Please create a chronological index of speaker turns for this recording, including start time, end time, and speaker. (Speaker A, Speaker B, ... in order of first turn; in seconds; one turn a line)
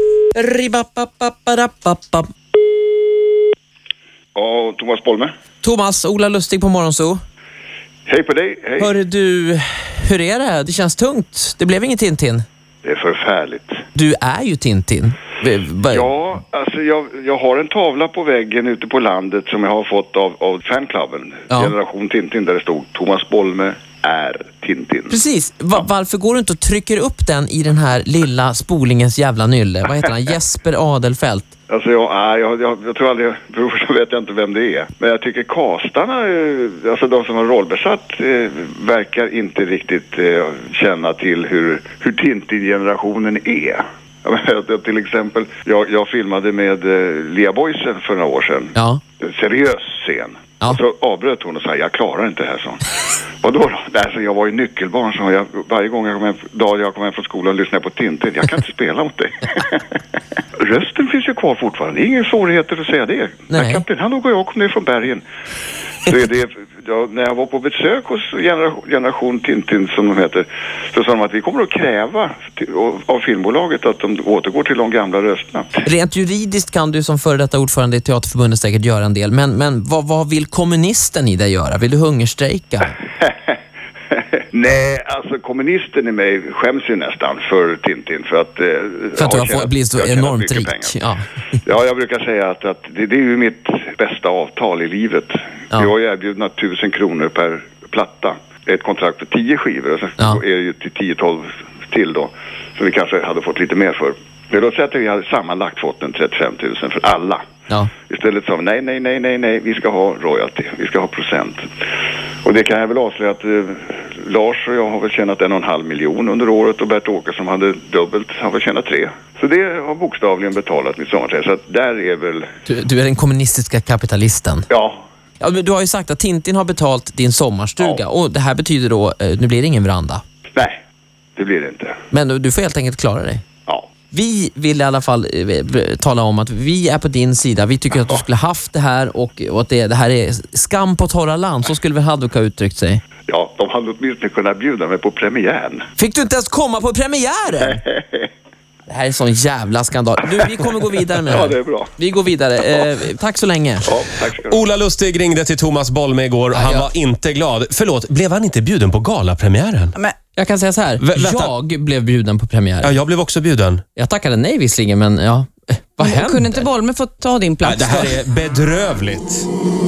Speaker A: 0.3-2.3
Speaker B: 4.3-5.3
Speaker A: 5.6-7.2
Speaker B: 8.1-9.0
Speaker A: 8.8-12.4
Speaker B: 12.8-13.8
Speaker A: 13.9-16.1
Speaker B: 15.9-25.2
Speaker A: 21.5-21.7
Speaker A: 25.1-31.5
Speaker B: 31.7-52.8
Speaker A: 48.7-49.0
Speaker B: 53.4-60.0
Speaker B: 60.6-65.2
Speaker A: 63.5-63.8
Speaker B: 66.0-75.8
Speaker A: 75.8-83.0
Speaker B: 84.5-91.0
Speaker A: 89.2-91.3
Speaker B: 91.6-107.4
Speaker B: 108.1-111.7
Speaker B: 112.4-122.5
Speaker A: 122.7-124.6
Speaker B: 124.7-125.0
Speaker A: 125.4-130.2
Speaker B: 131.3-132.0
Speaker A: 132.1-133.4
Speaker A: 134.1-143.0
Speaker B: 143.3-145.8
Speaker A: 146.0-147.8
Speaker B: 147.7-148.3
Speaker A: 148.9-153.9
Speaker B: 151.2-151.9
Speaker B: 153.8-154.7
Speaker C: 154.4-159.9
Speaker A: 156.5-156.9
Speaker A: 160.3-162.9
Speaker C: 161.0-161.5
Speaker C: 162.8-163.8
Speaker A: 163.9-166.7
Speaker D: 166.0-168.2
Speaker C: 167.6-169.5